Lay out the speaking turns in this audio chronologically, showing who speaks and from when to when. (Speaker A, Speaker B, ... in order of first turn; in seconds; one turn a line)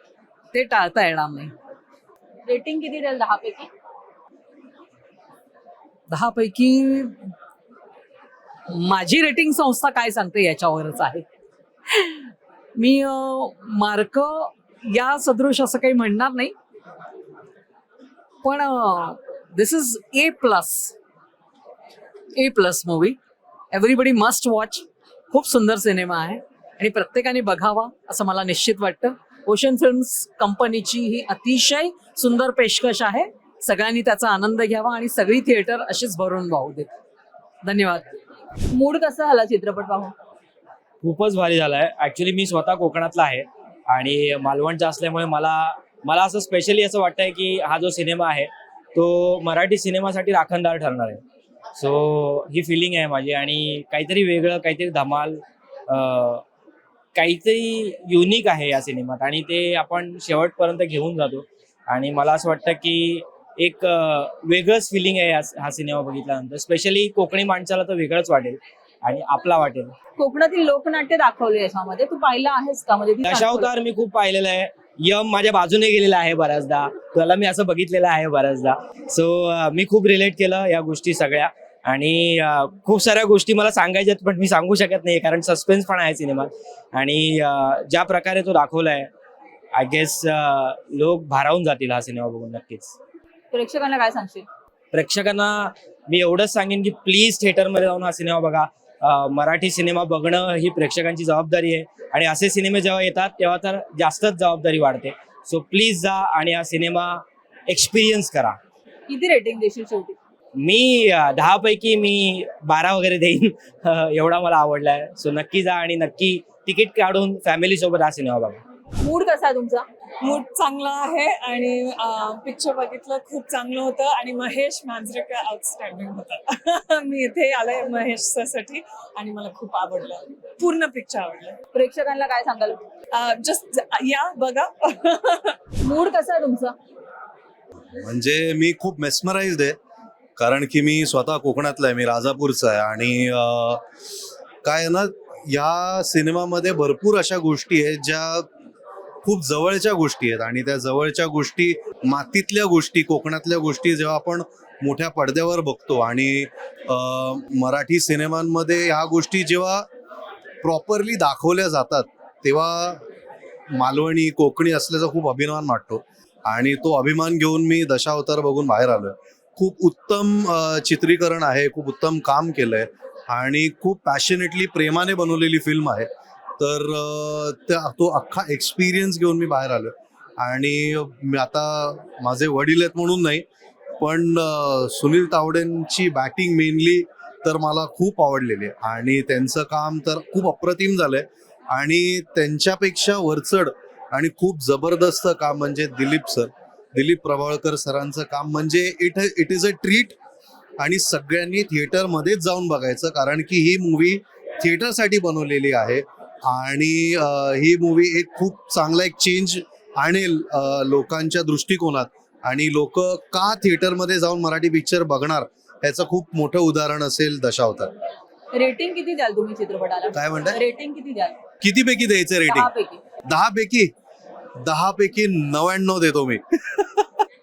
Speaker A: 0.5-1.5
Speaker B: 2.5-3.7
Speaker A: 6.1-7.3
Speaker A: 8.7-11.2
Speaker A: 11.9-12.2
Speaker A: 12.8-16.5
Speaker A: 18.4-20.9
Speaker A: 22.3-23.2
Speaker A: 23.7-36.9
Speaker A: 37.6-38.1
Speaker B: 38.7-40.1
Speaker C: 41.0-51.2
Speaker C: 51.8-56.4
Speaker C: 57.1-69.9
Speaker B: 70.2-73.7
Speaker C: 73.2-89.1
Speaker C: 89.8-93.0
Speaker B: 93.5-94.5
Speaker C: 94.9-108.6
Speaker B: 109.1-110.2
Speaker C: 110.6-118.6
Speaker B: 119.0-119.9
Speaker D: 120.2-131.6
Speaker B: 131.7-132.8
Speaker D: 133.1-135.6
Speaker B: 135.8-136.8
Speaker E: 138.0-139.8
Speaker E: 140.4-143.8
Speaker E: 144.6-148.5
Speaker E: 149.2-159.9
Speaker E: 160.6-163.0
Speaker E: 163.7-176.1
Speaker E: 176.6-183.4
Speaker E: 184.0-200.2
Speaker E: 200.8-217.9
Speaker B: 218.5-221.4
Speaker E: 220.1-220.6
Speaker E: 221.6-222.7
Speaker B: 222.5-223.0
Speaker E: 223.3-223.9
Speaker E: 224.6-226.4